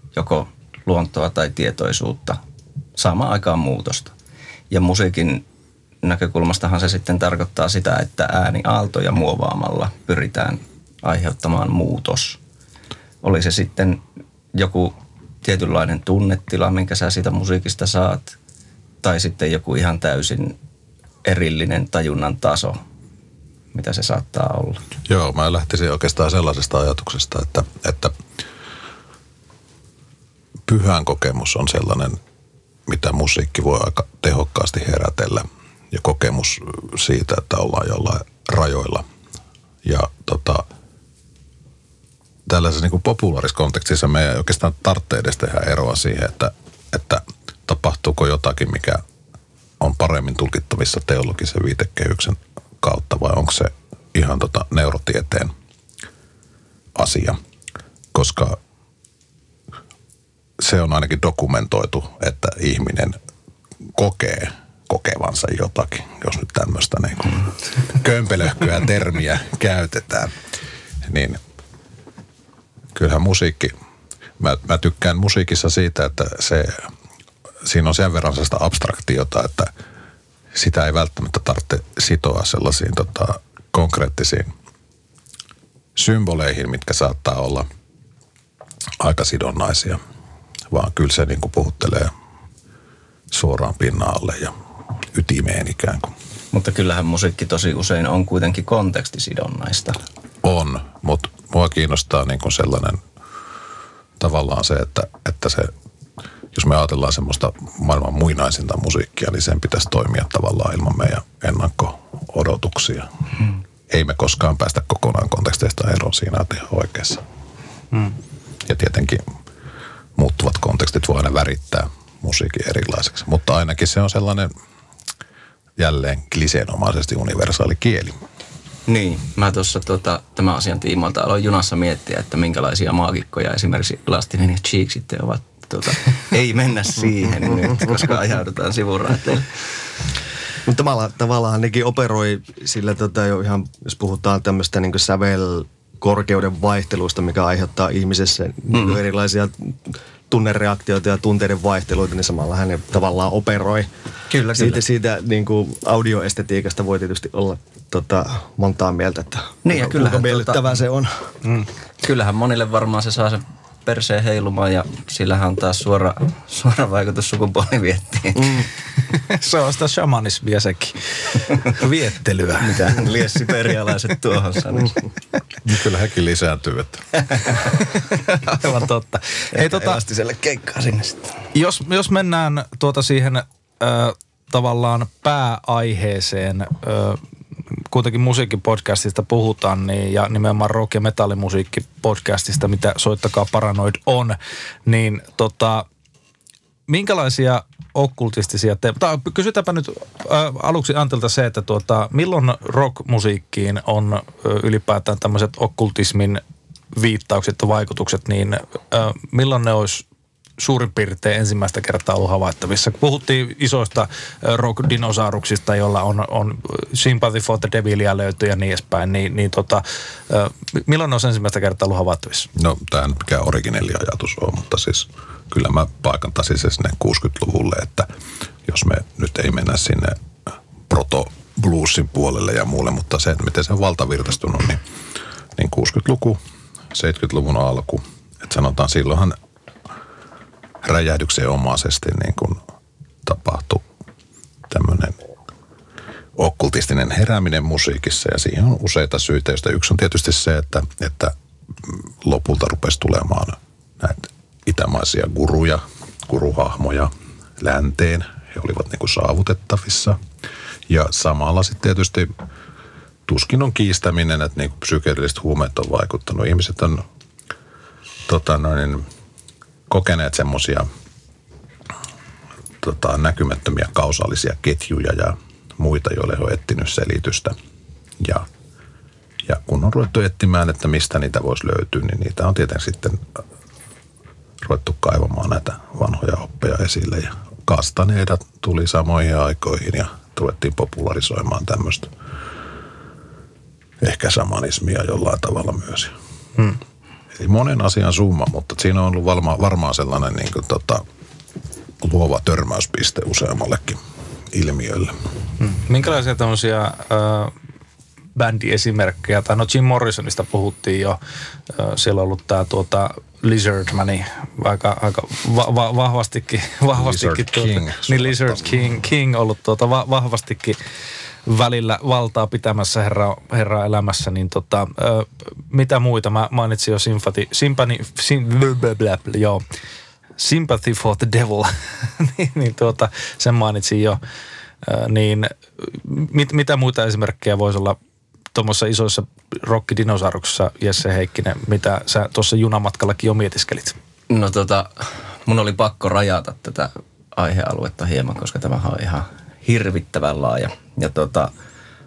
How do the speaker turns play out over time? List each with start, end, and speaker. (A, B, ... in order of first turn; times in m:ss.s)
0:00.1-0:02.4 A
0:03.0-0:04.1 A
0:04.7-0:05.4 A
0:06.0-0:12.4 A
0:13.2-0:14.0 A
0:14.5-0:18.4 A
0:19.0-0:20.6 A
0:21.2-0:22.8 A
0:23.7-0:24.8 A
0:25.0-0:28.1 B
0:30.7-0:32.2 B
0:32.9-0:39.0 B
0:39.8-0:40.6 B
0:42.4-0:49.0 B
0:49.8-0:55.5 B
0:56.9-0:57.4 B
0:58.1-0:58.6 B
1:00.6-1:03.2 B
1:03.9-1:10.3 B
1:11.0-1:11.4 B
1:12.9-1:13.7 B
1:14.4-1:16.9 B
1:17.6-1:19.7 B
1:20.5-1:24.5 B
1:26.0-1:27.6 B
1:29.0-1:30.0 B
1:30.7-1:32.1 B
1:33.3-1:34.5 B
1:35.1-1:36.1 B
1:36.5-1:40.0 A
1:40.4-1:43.0 B
1:44.2-1:45.7 B
1:46.5-1:53.1 B
1:53.9-1:57.2 B
1:58.6-1:59.2 B
2:00.2-2:04.5 B
2:05.8-2:08.1 B
2:08.9-2:19.7 A
2:20.6-2:33.9 C
2:28.7-2:29.0 A
2:34.3-2:34.8 A
2:34.5-2:41.1 C
2:39.6-2:40.8 A
2:42.0-2:48.6 A
2:48.4-2:48.7 C
2:49.1-2:52.7 D
2:52.6-2:55.0 A
2:55.6-2:57.1 B
2:57.3-2:57.6 A
2:58.5-3:00.0 D
2:59.5-3:01.4 A
3:01.5-3:07.2 D
3:07.9-3:14.4 D
3:14.9-3:15.8 D
3:16.9-3:26.4 D
3:27.0-3:30.0 D
3:30.6-3:42.5 D
3:42.5-3:48.1 B
3:48.6-3:50.2 B
3:50.9-3:54.8 B
3:55.6-3:56.4 B
3:56.9-3:59.4 B
4:00.8-4:02.6 B
4:03.2-4:03.8 B
4:04.7-4:05.2 B
4:06.4-4:20.2 B
4:20.9-4:22.3 B
4:23.2-4:27.0 B
4:28.3-4:29.0 B
4:29.9-4:30.8 B
4:32.8-4:37.5 B
4:38.2-4:38.5 B
4:39.4-4:43.2 B
4:44.6-4:52.1 B
4:54.0-4:56.1 B
4:57.3-5:01.0 B
5:02.0-5:04.0 B
5:04.5-5:05.1 B
5:05.6-5:07.5 D
5:08.4-5:11.2 D
5:11.7-5:20.8 D
5:16.9-5:18.7 B
5:21.5-5:29.6 D
5:30.4-5:34.2 D
5:34.8-5:38.0 D
5:38.5-5:43.9 D
5:44.3-5:51.5 A